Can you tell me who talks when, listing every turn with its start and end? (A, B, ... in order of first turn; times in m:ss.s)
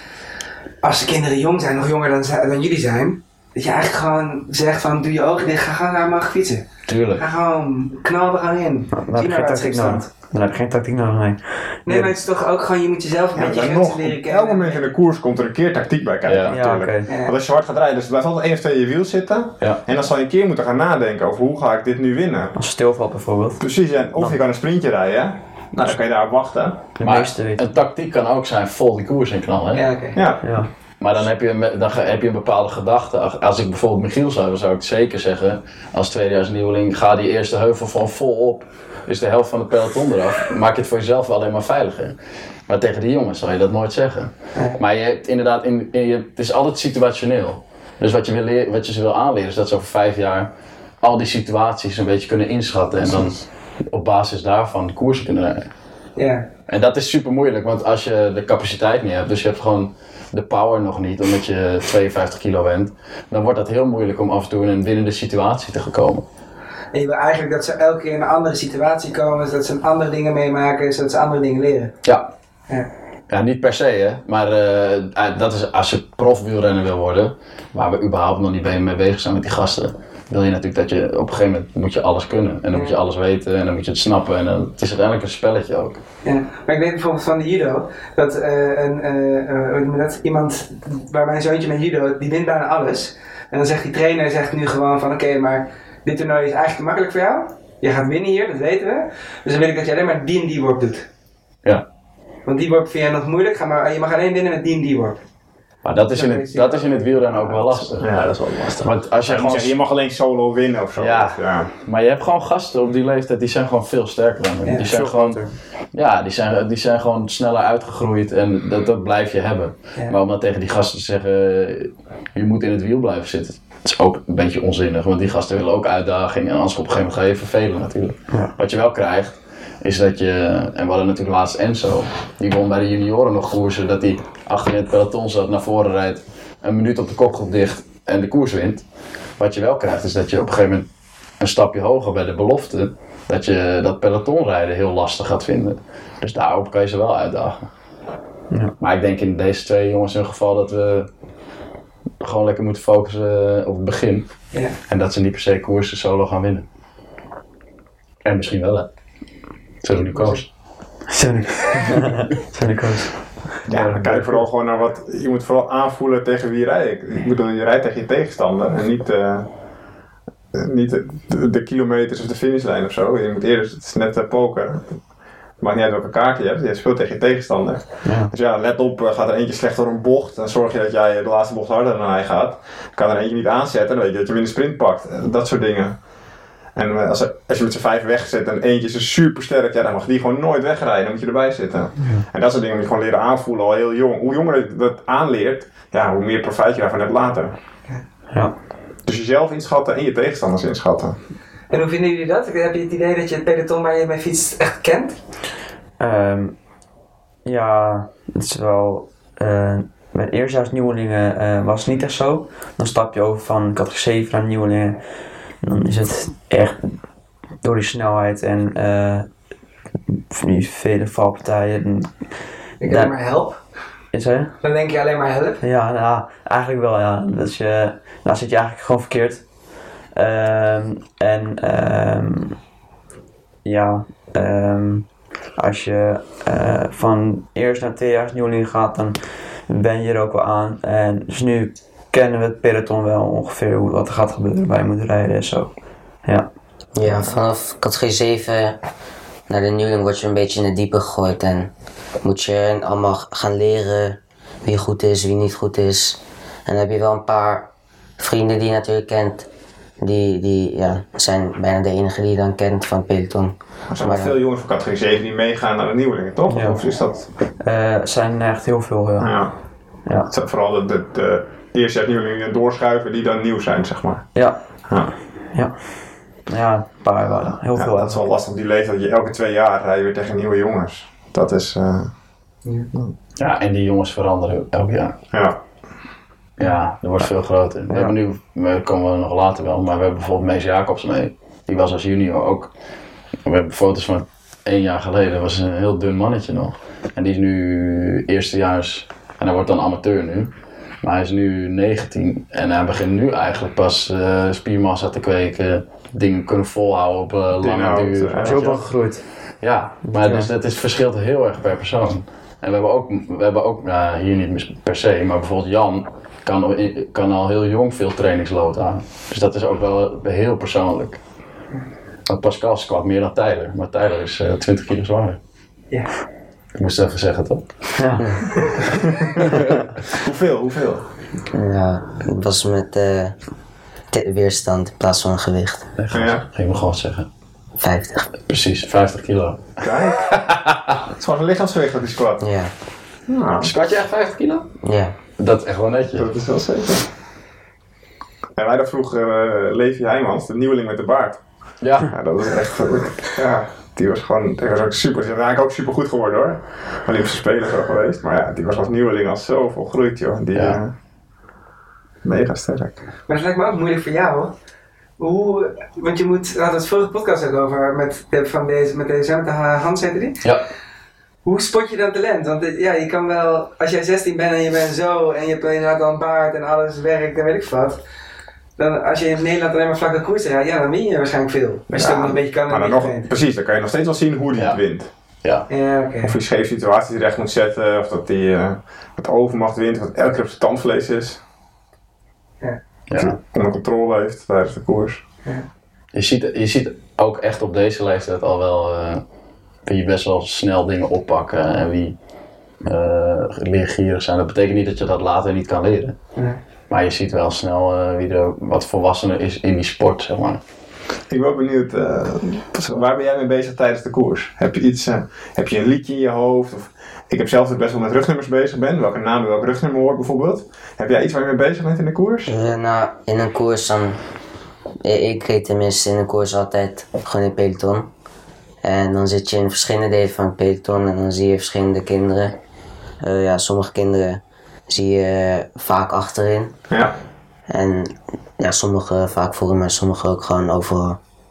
0:00.8-0:10.0 A
0:06.9-0:07.2 B
0:08.9-0:12.2 C
0:11.8-0:14.9 A
0:13.3-0:22.5 D
0:16.2-0:16.6 B
0:16.5-0:17.1 C
0:17.1-0:17.3 A
0:22.5-0:23.6 C
0:23.6-0:26.8 D
0:27.0-0:27.6 C
0:27.0-0:29.9 B
0:29.7-0:30.2 A
0:30.1-0:30.5 D
0:30.4-0:30.7 C
0:31.0-0:42.2 B
0:42.7-0:50.5 B
0:51.0-0:55.7 B
0:53.0-0:53.4 D
0:56.2-0:56.5 A
0:56.7-1:06.2 B
1:06.9-1:11.9 A
1:12.0-1:12.3 B
1:13.3-1:26.0 B
1:26.2-1:41.1 A
1:42.4-1:45.2 A
1:45.8-1:49.8 B
1:46.1-1:48.0 A
1:48.0-1:51.7 D
1:51.0-2:18.8 B
1:54.6-1:54.9 A
1:54.8-1:55.5 C
2:19.4-2:20.8 B
2:21.4-2:27.7 B
2:28.8-2:31.1 B
2:32.2-2:36.6 B
2:38.2-2:38.9 B
2:39.8-2:40.5 B
2:40.1-2:40.4 A
2:41.1-2:43.2 C
2:43.7-2:44.4 B
2:43.7-2:49.5 D
2:50.5-2:55.0 D
2:55.6-3:06.0 D
2:58.0-2:58.3 C
3:06.7-3:17.5 D
3:12.0-3:12.2 C
3:19.0-3:21.2 D
3:21.7-3:25.2 A
3:26.0-3:26.6 C
3:27.4-3:35.0 C
3:35.6-3:36.9 C
3:37.6-3:39.3 C
3:40.1-3:42.3 C
3:42.8-3:43.6 A
3:42.8-3:43.1 C
3:44.1-3:44.5 C
3:44.6-3:45.6 A
3:45.6-3:49.4 C
3:50.1-3:52.6 C
3:53.6-4:05.7 C
4:06.2-4:06.5 C
4:06.9-4:08.8 E
4:09.5-4:11.7 E
4:12.2-4:19.5 E
4:20.0-4:24.4 E
4:23.9-4:27.3 D
4:26.5-4:26.8 C
4:27.6-4:29.3 C
4:29.2-4:29.5 D
4:30.3-4:34.3 D
4:34.3-4:34.9 C
4:34.8-4:35.1 D
4:35.5-4:35.8 C
4:36.5-4:38.3 C
4:37.8-4:42.1 D
4:43.4-4:45.2 B
4:45.3-4:45.6 D
4:46.6-4:52.7 B
4:47.9-4:48.2 C
4:53.4-5:08.9 B
5:07.6-5:08.6 D
5:08.4-5:09.2 C
5:09.6-5:21.2 B
5:10.0-5:10.5 C
5:22.3-5:25.4 B
5:26.7-5:28.0 B
5:28.0-5:28.4 C
5:28.2-5:28.5 E
5:30.1-5:31.0 D
5:31.5-5:33.4 E
5:34.1-5:35.9 E
5:36.0-5:37.3 B
5:36.1-5:36.4 D
5:37.8-5:38.3 E
5:38.5-5:41.0 B
5:39.8-5:40.3 D
5:41.1-5:42.4 D
5:42.4-5:42.7 E
5:43.3-5:43.7 D
5:43.6-5:44.7 B
5:44.8-5:45.1 E
5:45.4-5:46.3 B
5:46.2-5:47.1 D
5:48.6-5:51.4 D
5:51.8-5:52.1 B
5:52.0-6:00.9 D
6:00.5-6:00.8 B
6:02.2-6:03.0 D
6:03.3-6:04.5 A
6:05.2-6:10.4 A
6:11.4-6:18.0 A
6:18.8-6:23.3 A
6:21.9-6:25.1 D
6:24.5-6:24.8 B
6:25.7-6:26.4 A
6:26.2-6:31.4 D
6:33.1-6:33.3 B
6:33.1-6:35.2 D
6:36.1-6:39.2 B
6:39.8-6:42.2 B
6:42.8-6:46.2 B
6:46.9-6:50.6 B
6:51.3-7:02.5 D
7:02.4-7:04.2 E
7:05.0-7:08.1 E
7:08.8-7:12.6 E
7:13.2-7:16.7 E
7:17.7-7:21.2 E